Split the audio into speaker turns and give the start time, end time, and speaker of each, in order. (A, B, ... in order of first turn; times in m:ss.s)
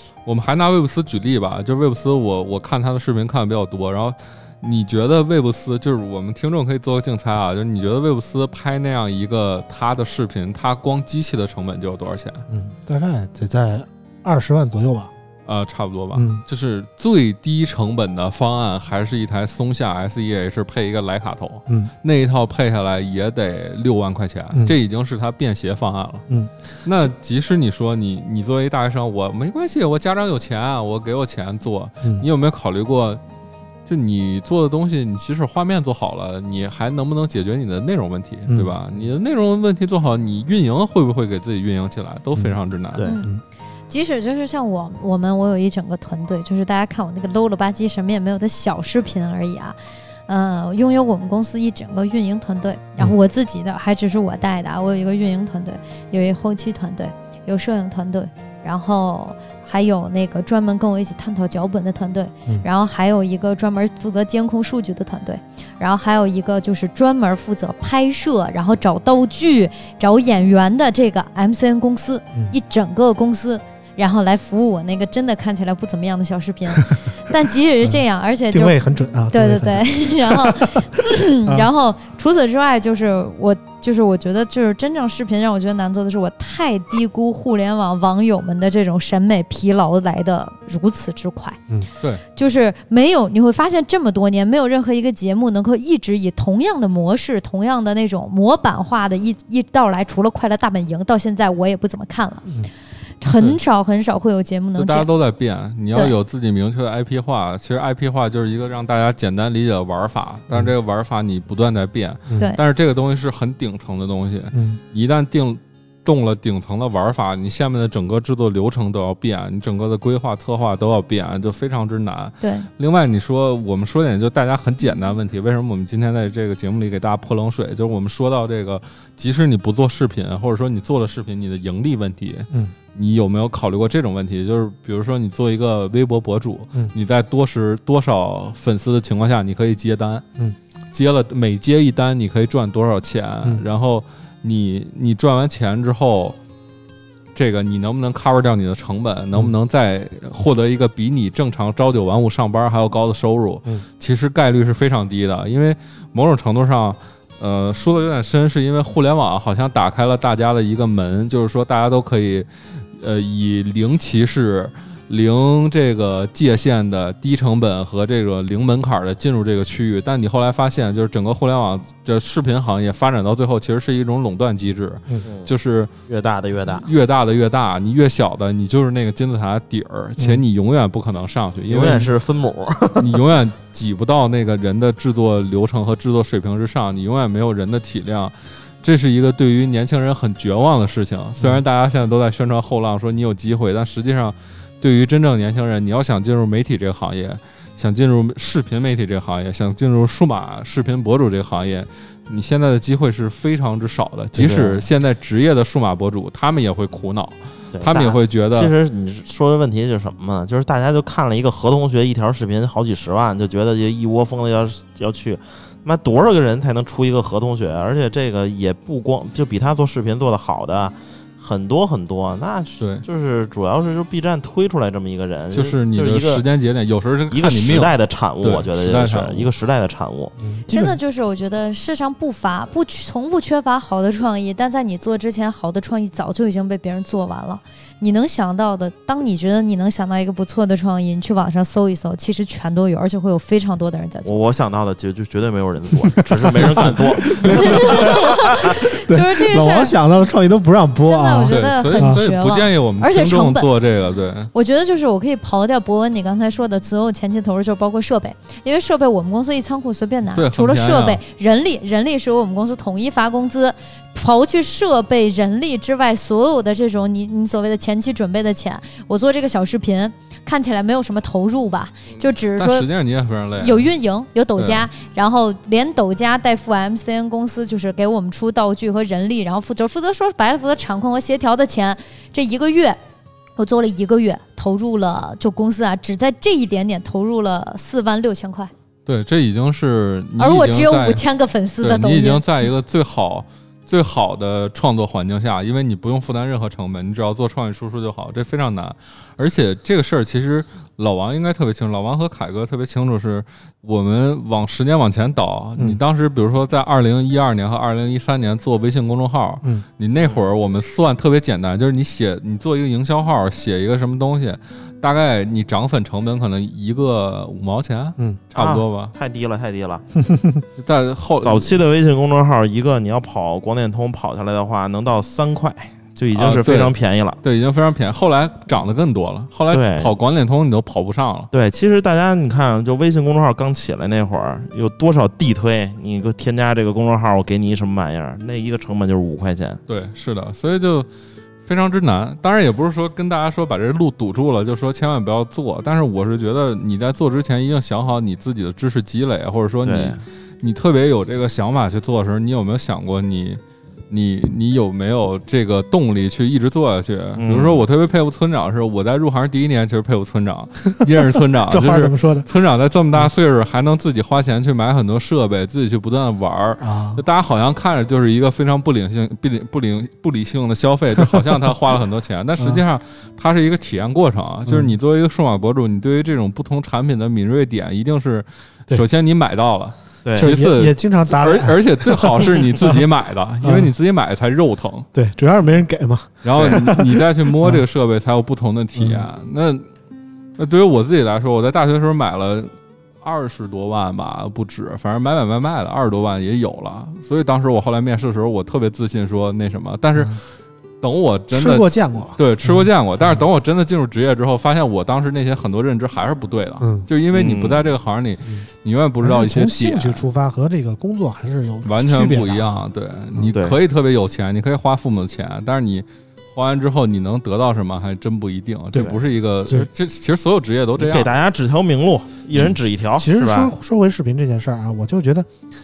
0:00.2-0:12.4 A
0:12.5-0:15.1 B
0:15.4-0:26.2 A
0:16.1-0:16.4 B
0:26.3-0:27.1 B
0:26.8-0:33.2 A
0:33.8-0:43.0 A
0:38.5-0:38.7 B
0:42.9-0:43.2 C
0:43.0-0:43.3 D
0:43.9-0:49.8 D
0:50.3-1:18.8 D
1:18.5-1:20.8 B
1:19.3-1:31.6 D
1:32.3-1:42.5 D
1:43.2-1:45.1 D
1:44.8-2:20.2 A
1:54.5-1:54.8 B
2:02.4-2:02.7 D
2:20.9-2:26.4 A
2:27.3-2:55.9 A
2:55.2-2:55.5 C
2:56.1-2:56.9 C
2:56.7-3:02.1 A
3:01.7-3:03.2 C
3:03.0-3:28.7 A
3:24.4-3:24.8 C
3:27.7-3:46.4 C
3:42.8-3:43.0 A
3:45.5-3:49.5 A
3:47.3-3:50.3 C
3:50.4-3:51.0 B
3:50.7-4:04.4 D
4:04.2-4:08.1 C
4:06.2-4:12.2 B
4:07.4-4:10.0 D
4:11.0-4:13.7 D
4:11.4-4:14.5 A
4:14.5-4:32.9 D
4:20.3-4:21.2 A
4:32.2-4:33.9 A
4:33.6-4:43.0 D
4:34.6-4:34.9 A
4:43.6-4:48.7 D
4:49.0-4:51.2 A
4:50.4-4:52.4 D
4:51.8-5:19.1 A
5:18.5-5:20.0 C
5:20.2-5:20.6 B
5:20.8-5:21.8 A
5:21.4-5:27.4 C
5:26.3-5:31.5 A
5:29.7-5:30.1 C
5:31.5-5:39.8 C
5:39.9-5:41.1 A
5:41.6-6:25.1 A
5:49.8-5:50.2 C
5:57.4-5:57.8 C
6:01.7-6:02.5 B
6:06.8-6:07.2 B
6:14.6-6:14.9 B
6:20.2-6:20.5 C
6:20.4-6:23.0 B
6:23.6-6:23.9 B
6:25.1-6:27.8 B
6:26.4-6:29.8 A
6:29.0-6:29.2 B
6:30.6-6:40.4 A
6:41.0-6:50.2 A
6:41.5-6:43.4 B
6:46.8-6:47.1 B
6:47.3-6:47.9 C
6:49.2-6:52.8 B
6:51.8-7:01.3 A
6:53.5-6:53.8 C
7:01.0-7:03.7 C
7:02.5-7:05.5 B